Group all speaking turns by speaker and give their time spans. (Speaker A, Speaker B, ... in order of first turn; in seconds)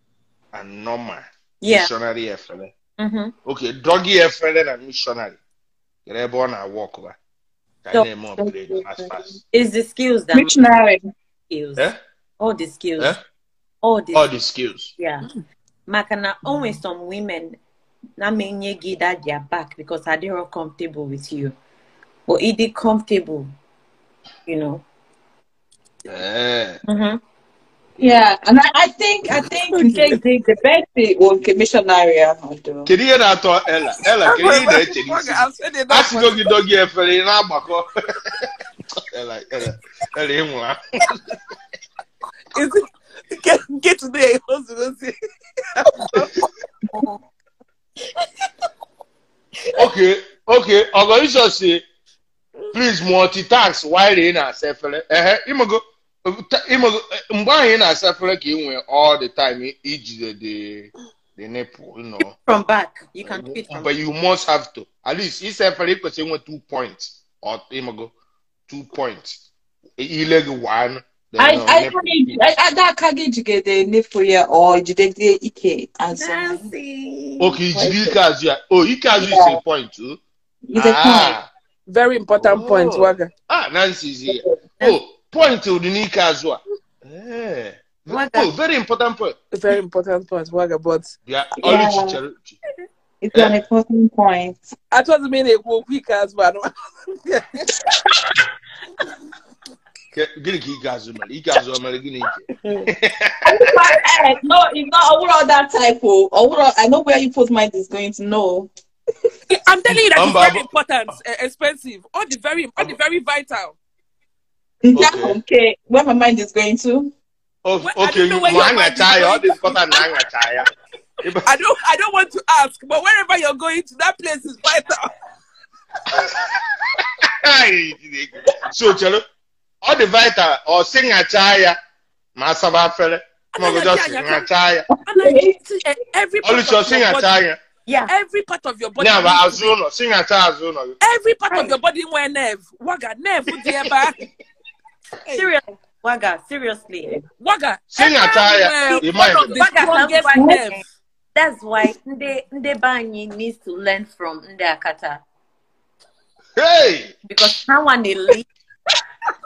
Speaker A: 0.5-2.7, 3.5-5.4, 6.1-7.2, 7.8-9.4, 14.1-14.9, 26.1-26.8, 32.9-37.9, 39.1-41.1, 49.8-51.8, 52.7-62.4, 63.2-68.1, 68.7-69.4, 70.0-72.4, 77.4-80.2, 80.8-81.5, 82.4-89.4, 91.3-92.6, 100.2-103.7, 110.1-110.7, 114.9-115.4, 117.7-120.7, 121.2-121.5, 126.1-126.5, 127.3-129.2, 129.8-131.8, 132.4-134.8, 136.4-137.6, 139.0-141.0, 147.9-149.9, 156.6-157.2
Speaker B: 1.6-1.9, 3.0-3.3, 9.5-10.5, 11.5-13.2, 13.8-14.3, 15.0-15.3, 15.9-17.6, 18.2-21.6, 22.3-23.5, 24.5-24.9, 26.9-27.2, 62.5-63.9, 76.1-78.1, 88.1-88.5, 137.9-138.1, 141.5-141.8, 145.3-147.2, 148.8-150.8, 151.3-155.2, 157.3-158.4
Speaker C: 8.4-9.2, 10.3-11.1, 28.0-32.9, 71.4-76.7, 79.2-79.6, 80.7-81.4, 84.3-85.0, 91.6-92.2, 93.2-94.7, 103.5-108.7, 114.8-117.1, 134.9-135.6
Speaker D: 29.7-30.2, 34.2-36.5, 42.5-45.2, 45.7-46.3, 81.9-83.3, 89.5-91.1, 94.9-96.7, 109.5-113.8, 117.8-120.1, 121.5-125.1, 133.6-134.5, 135.1-137.3, 138.1-139.7, 141.0-144.2, 147.4-150.8